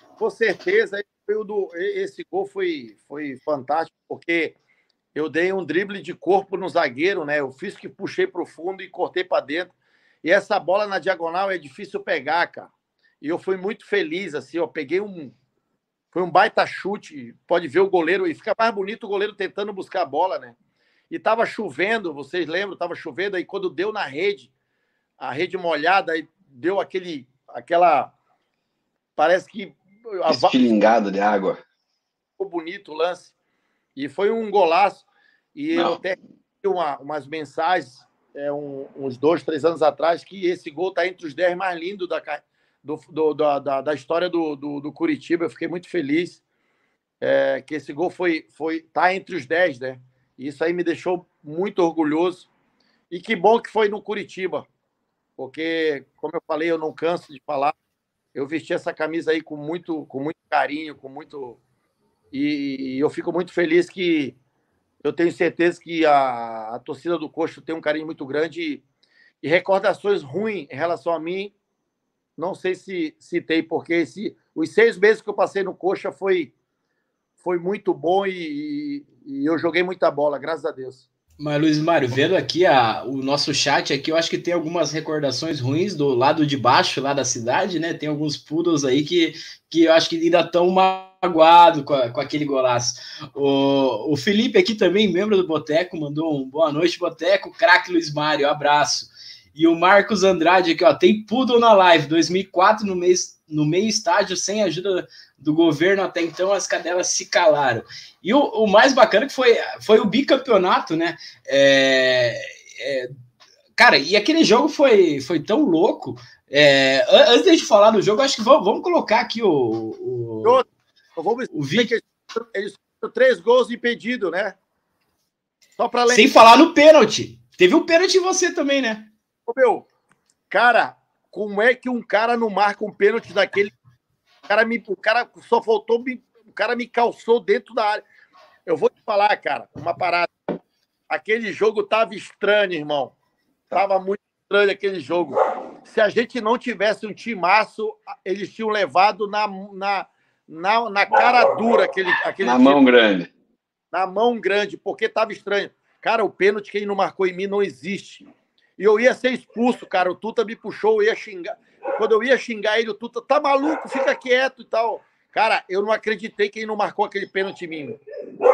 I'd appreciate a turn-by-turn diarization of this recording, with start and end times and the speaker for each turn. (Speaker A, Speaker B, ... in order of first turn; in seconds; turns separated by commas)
Speaker A: 0.2-4.6, Speaker A: 5.2-9.7, Speaker A: 10.2-15.3, Speaker A: 16.1-20.6, Speaker A: 21.1-24.5, Speaker A: 25.2-28.1, Speaker A: 29.2-30.6, Speaker B: 30.3-31.6, Speaker A: 32.4-33.3, Speaker A: 34.0-46.4, Speaker B: 35.7-36.0, Speaker A: 47.2-52.5, Speaker A: 53.1-54.7, Speaker A: 55.4-57.7, Speaker A: 58.3-61.6, Speaker A: 62.3-64.4, Speaker A: 65.0-68.8, Speaker A: 69.4-71.5, Speaker A: 72.4-76.5, Speaker A: 77.4-81.0, Speaker C: 81.4-113.1, Speaker C: 113.8-120.6, Speaker A: 120.4-124.6, Speaker C: 121.5-121.9, Speaker A: 125.8-126.6, Speaker C: 126.1-129.1, Speaker A: 129.5-129.9, Speaker A: 130.5-133.7, Speaker A: 134.5-138.0, Speaker A: 138.7-140.3, Speaker A: 141.1-143.1, Speaker A: 143.7-152.8, Speaker B: 152.4-153.3, Speaker A: 153.9-168.0